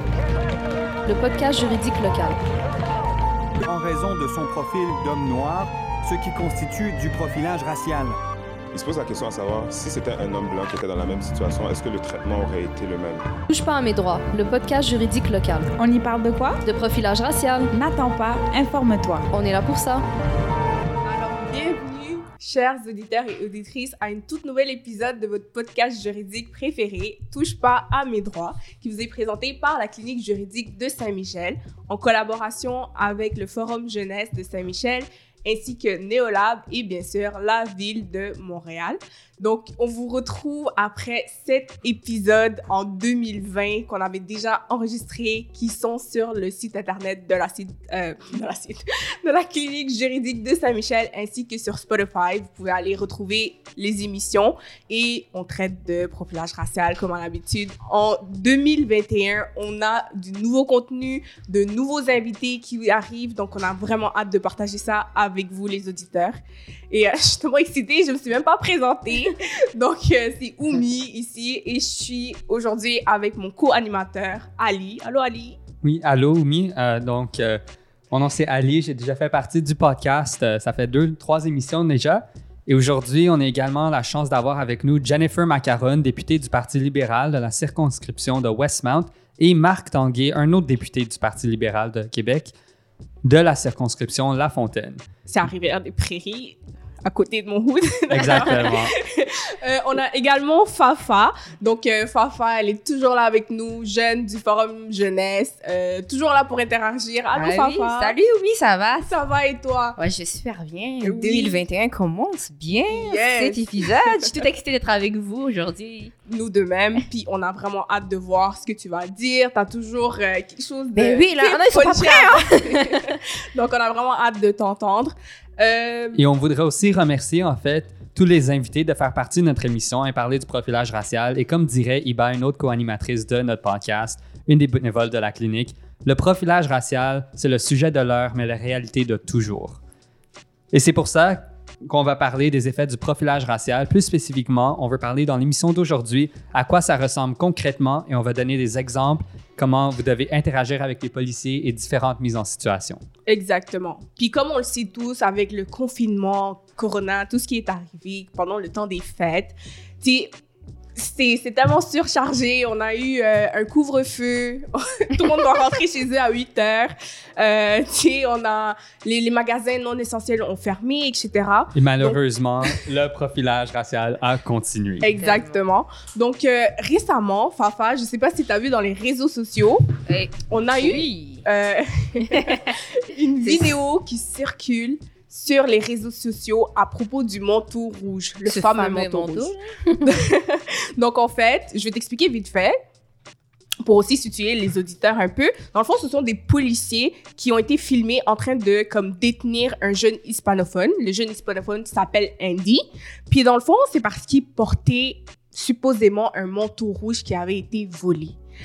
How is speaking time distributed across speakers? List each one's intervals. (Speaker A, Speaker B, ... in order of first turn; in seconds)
Speaker A: 1.1-2.4, 13.5-15.7, 16.6-17.7, 19.3-20.0
Speaker B: 3.6-8.1
Speaker C: 8.7-13.2
Speaker D: 15.8-16.6, 17.7-19.3
Speaker E: 21.0-66.4, 66.9-75.6, 95.3-108.2, 109.0-110.0, 111.0-111.6, 112.9-114.1, 116.3-126.2, 153.3-160.3, 160.9-172.2, 175.0-179.9, 180.5-192.8, 193.8-208.4
Speaker F: 75.8-92.5, 93.2-95.0, 98.1-98.9, 126.1-139.8, 140.7-153.0, 171.7-175.1
Speaker G: 98.2-98.6, 107.3-109.1, 110.0-116.1, 120.9-123.2, 175.2-175.6, 180.1-181.5, 182.2-182.7, 183.4-183.7, 188.4-190.1